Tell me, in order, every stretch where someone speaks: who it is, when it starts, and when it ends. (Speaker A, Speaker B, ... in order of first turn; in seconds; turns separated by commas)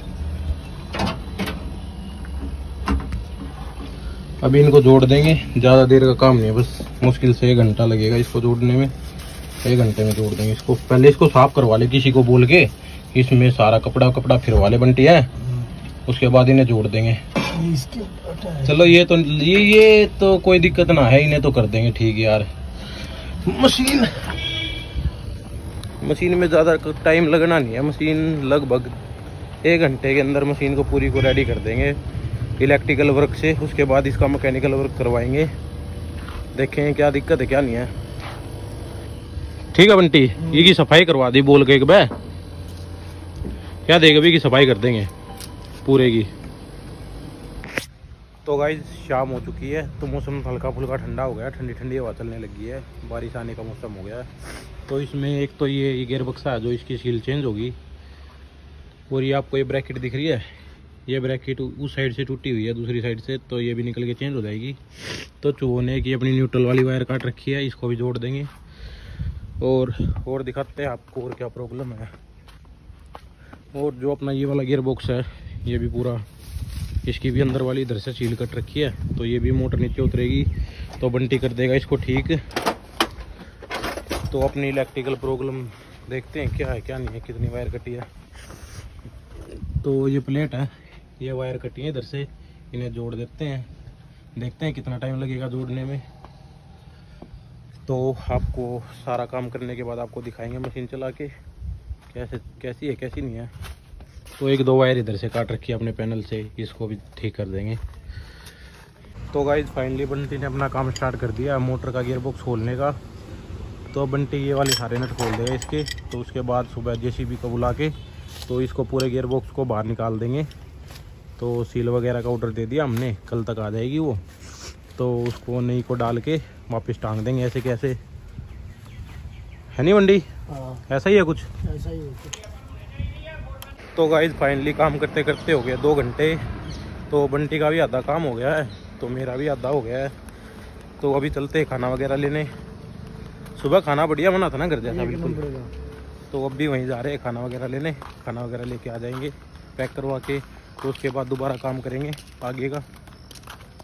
Speaker A: 4.4-8.9, Speaker A: 9.6-15.3, Speaker A: 16.1-17.2, Speaker B: 17.5-18.9, Speaker A: 18.6-22.5, Speaker A: 23.4-24.3, Speaker A: 26.0-29.0, Speaker A: 29.6-32.0, Speaker A: 32.6-35.5, Speaker A: 36.5-37.9, Speaker A: 39.7-42.1, Speaker B: 40.4-40.8, Speaker A: 43.9-45.1, Speaker A: 45.8-46.3, Speaker A: 48.4-57.8, Speaker A: 59.1-60.5, Speaker A: 61.1-68.5, Speaker A: 69.6-72.1, Speaker A: 73.7-76.2, Speaker A: 77.0-80.5, Speaker A: 81.0-82.4, Speaker A: 84.3-88.1, Speaker A: 89.8-93.7, Speaker A: 94.4-96.0, Speaker A: 97.9-101.3, Speaker A: 102.1-103.5, Speaker A: 104.4-107.8, Speaker A: 109.3-113.0, Speaker A: 113.9-117.9, Speaker A: 118.5-120.5, Speaker A: 121.4-124.2, Speaker A: 125.0-128.0, Speaker A: 129.7-130.3, Speaker B: 130.5-130.8, Speaker A: 130.9-131.5, Speaker B: 131.6-132.4, Speaker A: 133.9-136.4, Speaker A: 137.1-140.1, Speaker A: 141.0-142.5, Speaker A: 143.5-145.4, Speaker B: 144.8-145.7, Speaker A: 146.3-152.8